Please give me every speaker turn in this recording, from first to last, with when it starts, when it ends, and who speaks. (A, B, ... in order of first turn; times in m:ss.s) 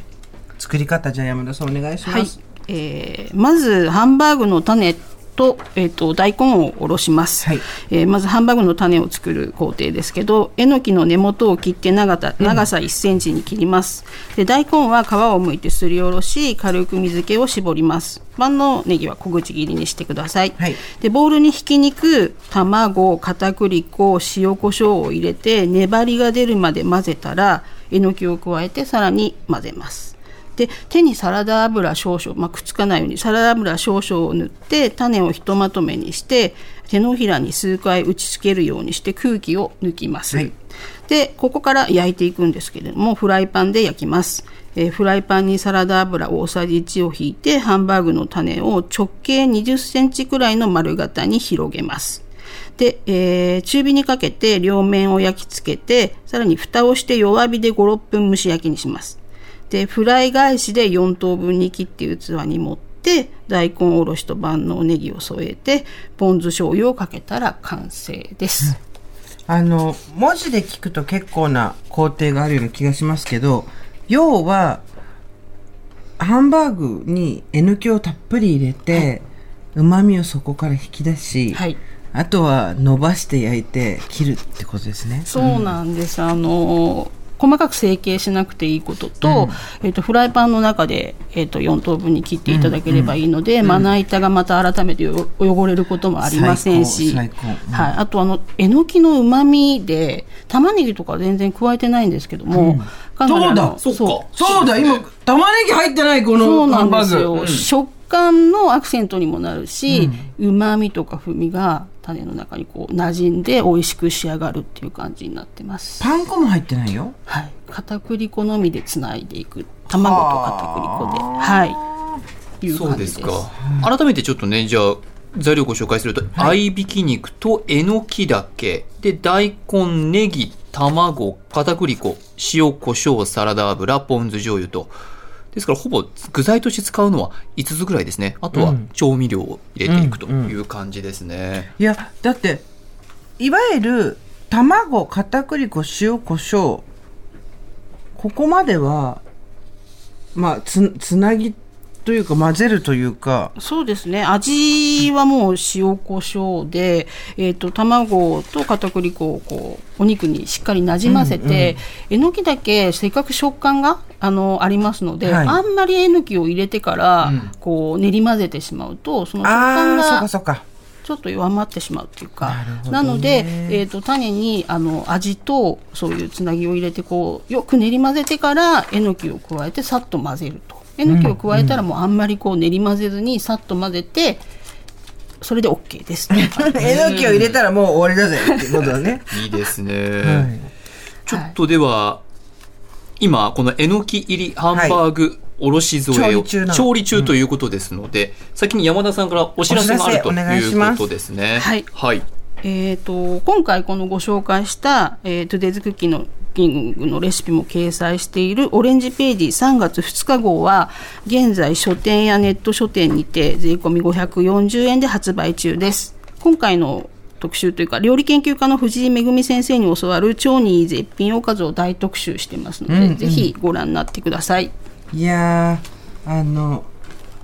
0:00.6-0:02.3 A
0:02.0-0:40.5 B
0:41.1-0:52.2 B
0:52.8-1:08.8 B
1:09.5-1:14.8 A
1:16.2-1:21.6 A
1:21.5-1:21.8 B
1:22.1-1:25.7 A
1:25.2-1:44.2 B
1:29.2-1:29.6 A
1:32.5-1:33.2 A
1:36.2-1:37.9 A
1:42.5-1:43.8 A
1:43.8-1:45.0 C
1:44.3-1:47.3 A
1:46.4-1:56.1 B
1:47.3-1:47.7 C
1:49.9-1:50.3 A
1:56.0-1:57.1 A
1:57.3-2:01.8 B
1:59.9-2:02.2 A
2:02.6-2:03.5 B
2:02.7-2:14.9 C
2:15.5-2:21.7 C
2:18.5-2:18.9 A
2:19.8-2:20.5 A
2:21.8-2:22.6 A
2:23.4-2:26.8 A
2:28.2-2:29.2 A
2:30.3-2:33.5 A
2:33.6-2:50.3 B
2:41.0-2:41.8 A
2:45.2-2:45.6 A
2:47.2-2:47.5 C
2:49.4-2:50.6 A
2:51.0-3:04.4 B
2:52.4-2:53.8 A
3:01.0-3:01.8 A
3:05.4-3:07.0 B
3:06.3-3:09.2 A
3:06.8-3:07.6 C
3:09.3-3:10.5 C
3:10.2-3:10.7 A
3:11.2-3:12.2 C
3:13.2-3:22.2 C
3:14.7-3:15.0 A
3:16.1-3:17.3 A
3:19.7-3:21.0 A
3:21.6-3:21.9 B
3:22.6-3:44.7 B
3:42.9-3:43.5 A
3:45.1-3:46.9 A